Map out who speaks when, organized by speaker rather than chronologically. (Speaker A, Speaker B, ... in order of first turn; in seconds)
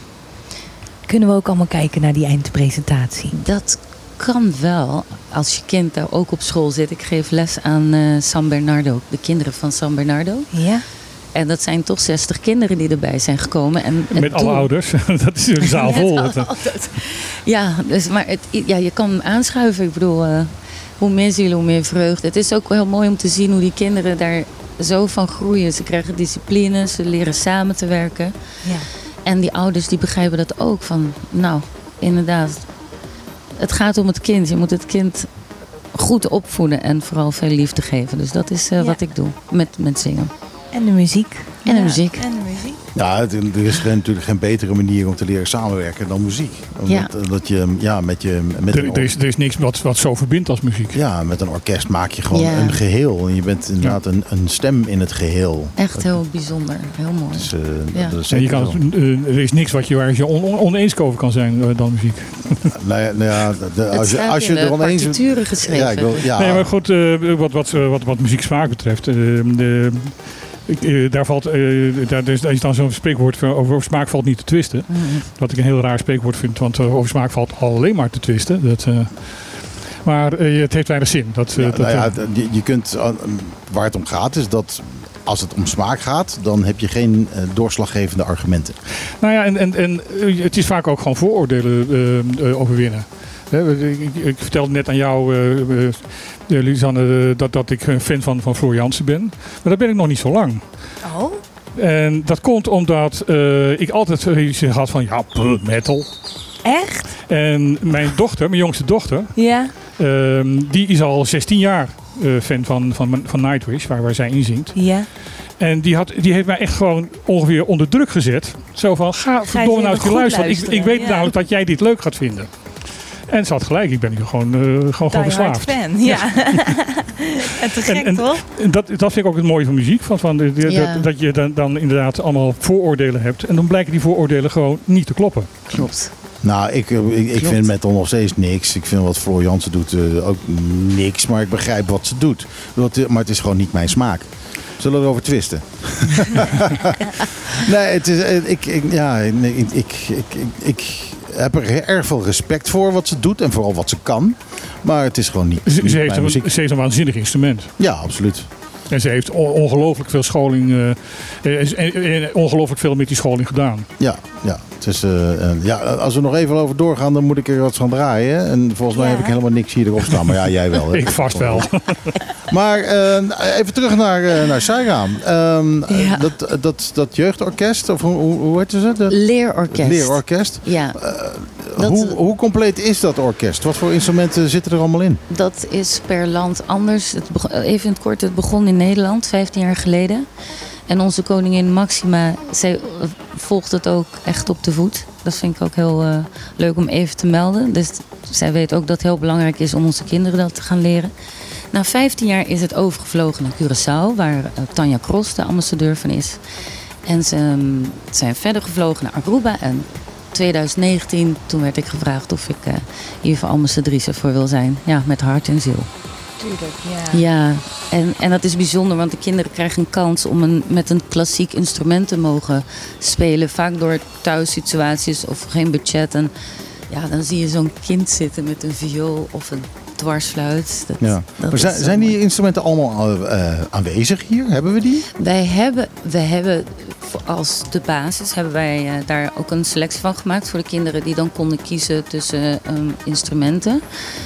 Speaker A: 1.1-3.3, 10.5-10.8, 28.6-28.9, 40.7-42.8, 101.0-101.4, 106.6-107.1, 109.3-109.7, 114.7-115.1, 119.5-121.3, 125.1-128.4, 168.9-169.3, 216.4-217.2
Speaker B: 3.3-10.5, 11.3-14.7, 15.7-28.3, 29.2-32.7, 33.6-35.3, 35.9-40.3, 41.6-42.2, 52.3-52.8, 55.8-58.2, 63.9-66.3, 74.9-75.2, 130.6-131.1, 135.7-136.1, 137.4-137.7, 175.9-176.3, 179.1-181.0, 181.8-182.2, 185.3-190.3, 190.9-201.1, 201.7-206.4, 207.1-215.9, 217.1-226.3, 226.9-232.1, 235.2-243.8
Speaker C: 14.1-16.5, 48.7-51.0, 58.3-62.7, 66.4-82.2, 89.2-100.6, 101.8-106.1, 107.3-114.9, 115.5-126.8, 127.8-135.5, 155.6-157.7, 158.9-163.9, 170.9-172.1
Speaker D: 42.9-49.1, 50.9-56.1, 57.3-58.8, 62.7-66.7, 81.5-88.8, 136.4-156.5, 157.8-158.5, 164.0-171.7, 172.5-185.2, 231.0-235.0